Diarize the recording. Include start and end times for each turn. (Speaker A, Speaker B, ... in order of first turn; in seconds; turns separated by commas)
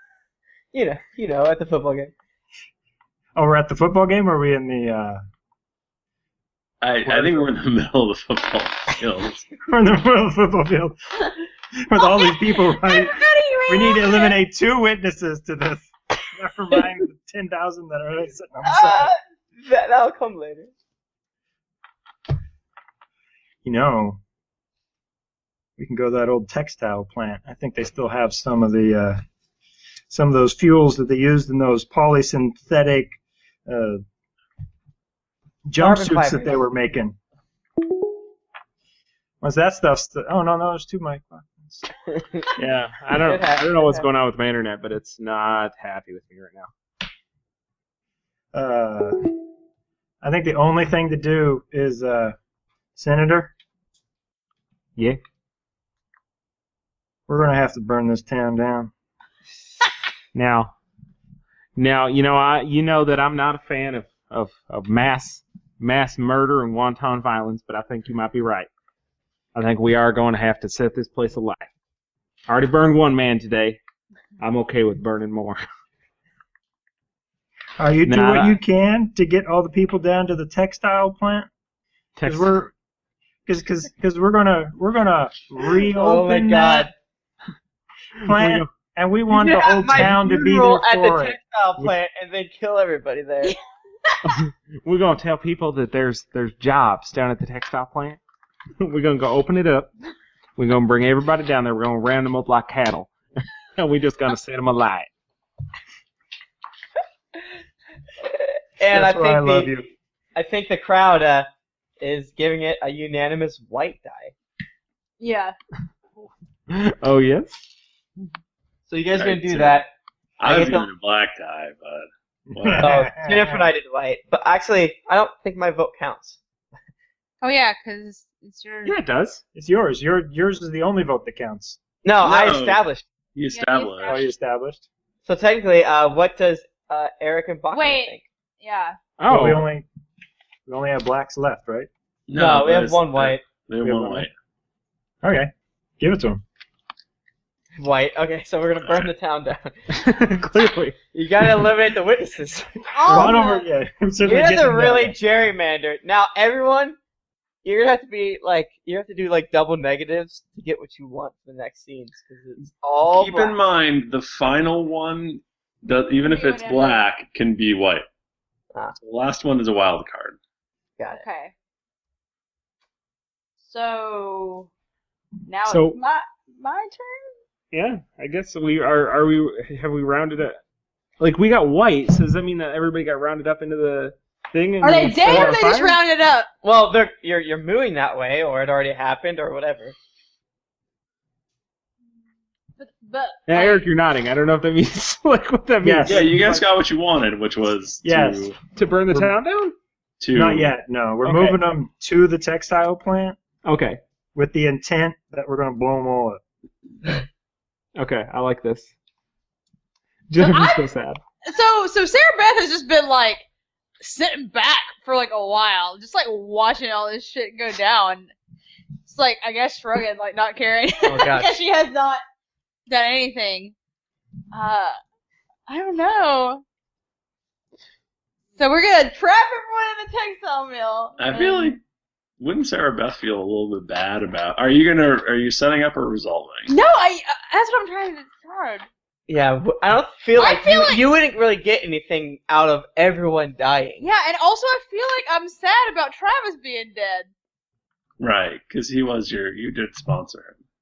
Speaker A: 0.7-2.1, Speaker B: 3.4-5.2, Speaker C: 6.8-9.5, Speaker B: 7.0-7.5, Speaker B: 9.7-11.0, Speaker B: 11.8-19.1, Speaker D: 12.0-14.4, Speaker A: 18.6-20.7, Speaker B: 23.6-24.2, Speaker B: 25.8-29.2, Speaker B: 30.1-34.0, Speaker B: 35.6-37.2, Speaker A: 35.8-36.6, Speaker B: 39.4-41.8, Speaker A: 42.1-42.5, Speaker E: 42.5-46.7, Speaker A: 43.1-44.0, Speaker B: 48.5-49.2, Speaker B: 50.2-52.4, Speaker B: 53.0-53.5, Speaker B: 57.3-58.9, Speaker E: 60.3-60.7, Speaker E: 61.8-68.7, Speaker E: 69.5-71.7, Speaker E: 72.5-73.8, Speaker E: 74.4-75.6, Speaker B: 77.8-81.5, Speaker E: 78.0-78.6, Speaker E: 82.1-82.5, Speaker B: 82.2-82.7, Speaker B: 83.5-86.9, Speaker A: 85.8-86.9, Speaker B: 88.2-91.4, Speaker E: 88.2-88.7, Speaker A: 89.3-93.5, Speaker D: 93.4-94.4, Speaker E: 94.2-98.2, Speaker E: 98.8-99.9, Speaker E: 100.6-103.1, Speaker E: 103.8-105.1, Speaker A: 108.2-109.7, Speaker B: 108.9-109.9, Speaker A: 110.3-111.5, Speaker A: 112.0-114.3, Speaker D: 115.2-115.5, Speaker E: 116.7-117.7, Speaker A: 118.9-119.9, Speaker C: 119.1-119.8, Speaker C: 120.4-123.0, Speaker A: 120.4-120.9, Speaker B: 122.5-123.7, Speaker A: 122.8-126.4, Speaker D: 127.4-129.0, Speaker E: 128.8-129.4, Speaker B: 129.5-131.8, Speaker A: 132.0-133.0, Speaker C: 132.2-132.8, Speaker C: 133.3-134.2, Speaker D: 133.5-134.3, Speaker B: 134.1-134.8, Speaker A: 135.2-138.2, Speaker D: 137.7-139.0, Speaker E: 139.2-139.7, Speaker B: 139.3-139.8, Speaker B: 140.7-141.9, Speaker C: 142.3-144.3, Speaker A: 142.3-143.4, Speaker B: 143.8-144.3, Speaker B: 145.2-146.4, Speaker A: 147.8-149.7, Speaker E: 149.9-151.0, Speaker A: 151.1-153.4, Speaker D: 152.9-153.7, Speaker B: 153.1-155.2, Speaker A: 154.2-157.0, Speaker A: 157.6-163.6, Speaker C: 163.0-168.1, Speaker D: 166.2-167.0, Speaker C: 169.0-170.4, Speaker A: 171.0-171.2, Speaker D: 171.1-171.5, Speaker D: 173.6-174.7, Speaker D: 175.5-177.3, Speaker E: 175.7-176.0, Speaker E: 177.7-180.6, Speaker E: 181.2-186.0, Speaker D: 184.8-186.5, Speaker A: 186.6-189.9, Speaker D: 192.8-193.9, Speaker E: 193.5-196.3, Speaker B: 195.8-196.6, Speaker C: 196.1-198.6, Speaker B: 198.0-198.5, Speaker E: 198.7-199.8, Speaker C: 200.2-200.7, Speaker B: 200.3-203.4, Speaker E: 201.2-201.6, Speaker E: 203.6-204.0, Speaker B: 204.3-206.4, Speaker E: 207.9-208.9, Speaker E: 210.3-211.2, Speaker D: 210.4-210.9, Speaker D: 211.4-213.4, Speaker D: 214.0-218.3, Speaker D: 219.1-222.2, Speaker A: 221.0-221.5, Speaker D: 222.9-223.7, Speaker D: 224.5-225.0, Speaker D: 225.7-226.6, Speaker D: 228.6-231.7, Speaker C: 231.2-231.8, Speaker C: 232.4-236.7, Speaker D: 236.7-238.8, Speaker A: 239.3-244.0, Speaker D: 240.3-241.0, Speaker D: 244.0-247.3, Speaker C: 248.2-250.6